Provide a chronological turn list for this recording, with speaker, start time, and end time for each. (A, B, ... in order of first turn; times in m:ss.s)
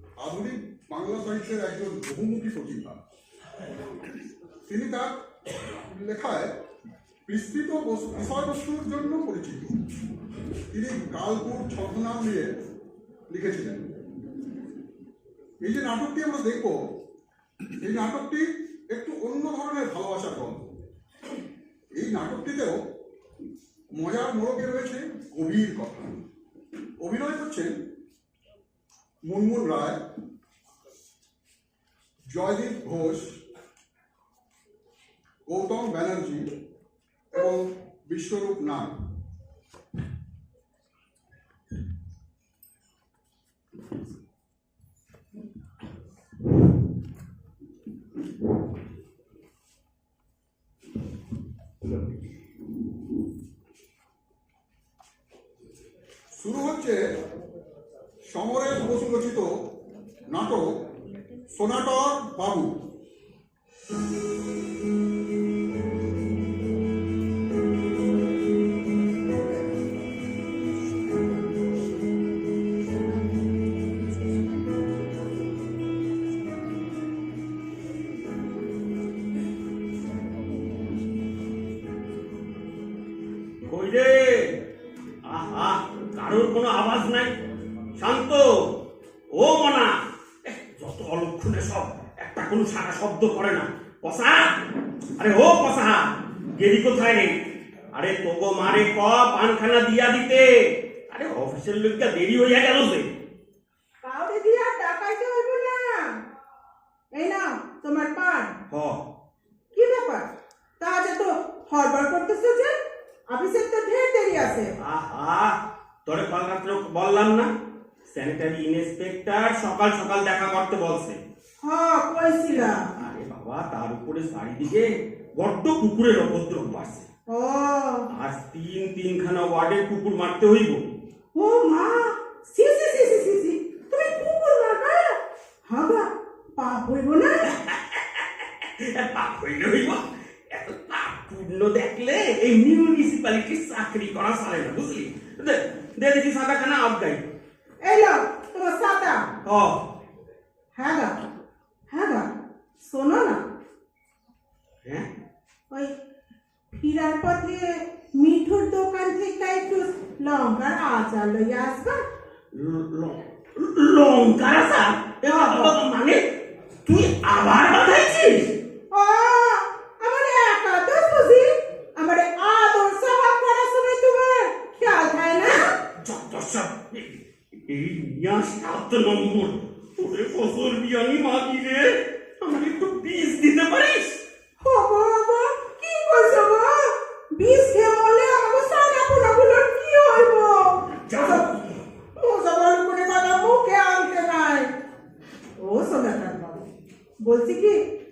0:00.2-0:03.0 A
0:04.7-0:05.1 A
0:05.7-0:06.5 A
0:07.3-0:09.7 A
0:10.7-0:12.5 A
0:13.3-0:13.8 A
0:15.6-0:16.8 A
0:17.8-0:20.7 A
0:22.0-0:22.8 A
0:24.0-0:26.1 A
0:27.0-0:27.8 A
0:29.2-0:30.0 A
0:32.3-0:33.3 A
0:35.5-0:36.5 A
0:37.3-0:38.9 A
0:56.3-0:57.0 A
0:58.3-0:59.5 A
1:00.3-1:00.7 A
1:01.5-1:02.7 A
1:23.6-1:24.6 B
1:25.3-1:27.3 B
1:28.0-1:28.5 B
1:29.4-1:29.9 B
1:30.4-1:34.5 B
1:35.2-1:37.4 B
1:37.9-1:40.5 B
1:41.1-1:43.1 B
1:44.0-1:46.0 C
1:47.2-1:48.5 C
1:48.7-1:49.0 B
1:49.7-1:50.3 C
1:50.8-1:52.7 C
1:53.3-1:54.7 C
1:54.8-1:55.6 B
1:56.1-1:57.5 B
1:58.1-2:01.2 B
2:01.6-2:02.8 C
2:02.5-2:04.9 B
2:05.4-2:07.1 B
2:07.3-2:08.1 C
2:08.1-2:10.8 B
2:11.4-2:15.2 C
2:15.7-2:16.0 C
2:16.6-2:17.4 C
2:17.6-2:27.2 B
2:27.8-2:29.3 C
2:29.4-2:29.8 B
2:30.8-2:31.2 C
2:31.9-2:32.3 C
2:32.8-2:33.4 C
2:36.7-2:42.0 C
2:42.5-2:46.2 B
2:45.3-2:45.8 C
2:46.9-2:48.5 B
2:48.9-2:55.7 C
2:55.9-3:04.2 B
3:04.6-3:11.5 C
3:11.0-3:11.9 B
3:12.2-3:14.7 C
3:15.6-3:16.6 C
3:17.2-3:17.8 C